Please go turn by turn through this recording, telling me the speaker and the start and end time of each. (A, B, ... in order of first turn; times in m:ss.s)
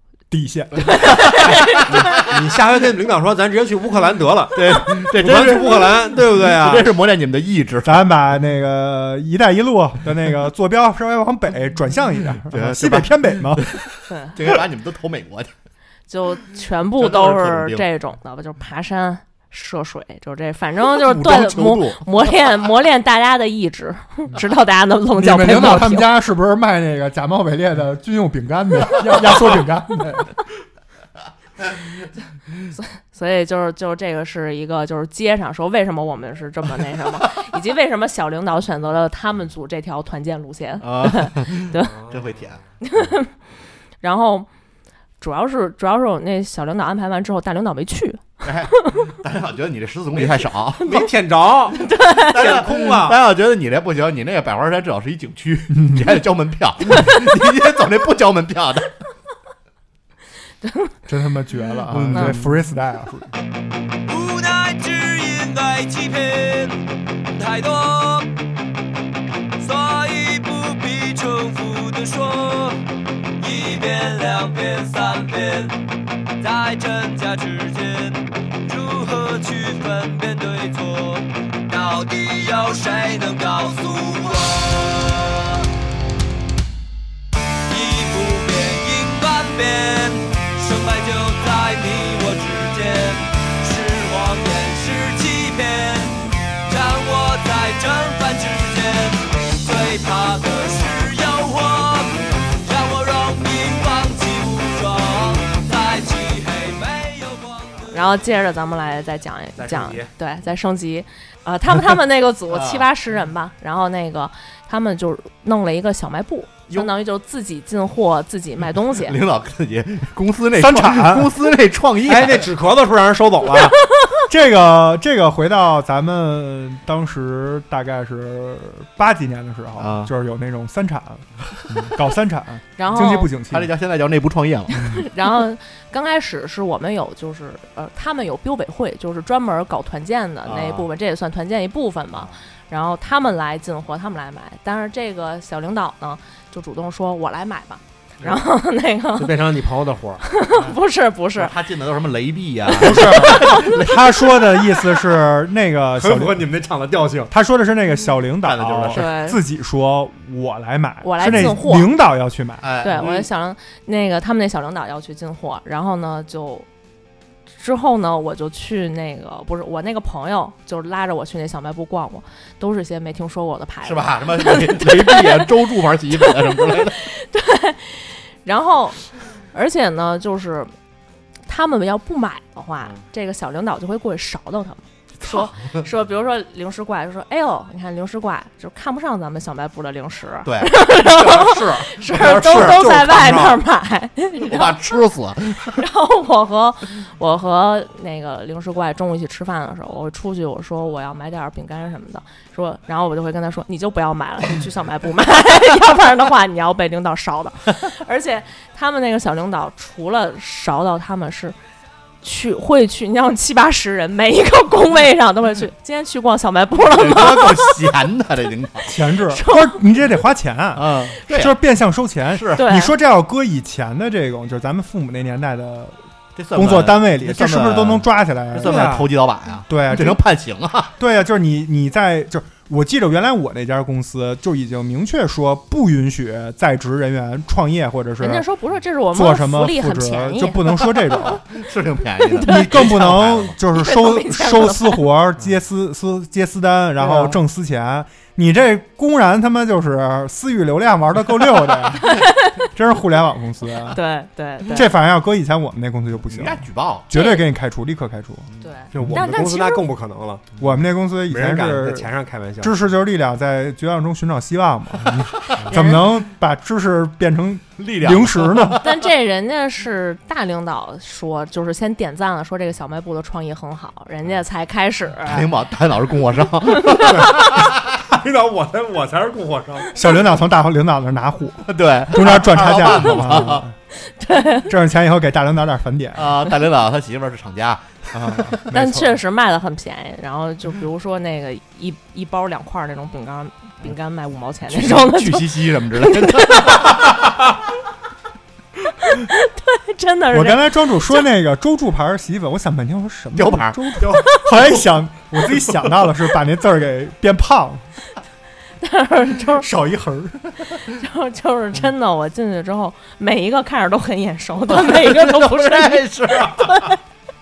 0:00.3-0:01.2 A
0:00.9-0:02.0 B
0:01.9-0:02.3 C
0:02.2-0:06.9 D
0:04.5-0:08.0 C
0:07.8-0:13.7 A
0:12.5-0:15.5 C
0:16.1-0:26.1 B
0:17.0-0:17.8 C
0:20.9-0:22.4 C
0:25.2-0:30.3 A
0:32.7-0:42.0 B
0:40.8-0:42.6 C
0:42.8-0:43.3 B
0:44.0-0:44.5 B
0:45.2-0:49.0 B
0:48.4-0:50.9 C
0:50.1-0:53.2 D
0:50.8-0:51.1 B
0:51.7-0:52.4 B
0:52.3-0:58.9 C
0:55.7-0:56.2 A
1:00.6-1:00.9 B
1:01.0-1:03.3 A
1:01.9-1:02.5 C
1:04.0-1:08.3 E
1:09.6-1:12.8 E
1:13.4-1:15.8 E
1:16.4-1:25.7 E
1:27.7-1:48.1 E
1:47.9-1:59.2 B
1:49.6-1:50.1 D
1:52.5-1:52.9 C
1:58.9-2:02.5 C
2:00.6-2:01.3 A
2:02.0-2:03.7 D
2:04.3-2:13.7 A
2:09.8-2:10.1 C
2:12.8-2:13.3 B
2:13.4-2:15.0 C
2:14.7-2:29.4 B
2:20.4-2:20.9 C
2:29.2-2:30.2 D
2:30.2-2:31.5 B
2:31.3-2:34.4 C
2:32.8-2:33.6 B
2:32.8-2:36.5 A
2:36.0-2:37.3 D
2:37.3-2:42.7 A
2:38.4-2:39.0 C
2:38.9-2:39.4 B
2:41.0-2:41.9 B
2:41.2-2:41.6 C
2:42.6-2:43.1 C
2:42.8-2:46.6 B
2:43.0-2:43.2 D
2:47.6-2:55.5 B
2:53.8-2:57.0 C
2:56.1-3:00.7 B
3:01.5-3:14.8 B
3:05.2-3:05.8 C
3:10.4-3:12.8 C
3:12.1-3:13.6 D
3:14.4-3:15.8 C
3:15.8-3:31.6 B
3:32.2-3:37.7 B
3:36.8-3:38.9 C
3:38.9-3:46.0 A
3:39.3-3:39.8 B
3:40.8-3:41.6 C
3:42.3-3:42.7 C
3:42.6-3:42.9 B
3:46.4-3:50.9 C
3:46.5-3:49.0 A
3:48.6-3:49.0 D
3:49.7-3:50.2 A
3:51.0-3:58.4 A
3:58.2-4:01.0 B
3:59.1-4:01.4 A
4:01.5-4:03.6 C
4:02.3-4:02.7 B
4:02.4-4:14.0 A
4:03.7-4:05.0 B
4:12.0-4:12.6 B
4:13.9-4:14.9 B
4:14.7-4:18.5 A
4:16.3-4:17.1 C
4:17.1-4:17.4 B
4:18.6-4:19.8 B
4:18.9-4:20.5 D
4:20.6-4:28.9 A
4:21.3-4:22.8 D
4:25.7-4:26.0 B
4:27.8-4:28.9 C
4:28.8-4:35.4 B
4:35.2-4:37.7 C
4:37.0-4:39.9 D
4:39.9-4:43.8 A
4:41.6-4:43.6 C
4:44.0-4:44.7 B
4:44.7-4:46.4 A
4:46.2-4:48.7 C
4:48.2-4:49.1 A
4:48.7-4:57.1 B
4:54.7-4:57.1 C
4:59.0-5:01.2 B
5:00.3-5:07.8 A
5:03.3-5:04.9 C
5:04.1-5:04.4 B
5:08.8-5:09.7 B
5:09.6-5:10.5 A
5:10.9-5:17.0 B
5:14.7-5:16.9 C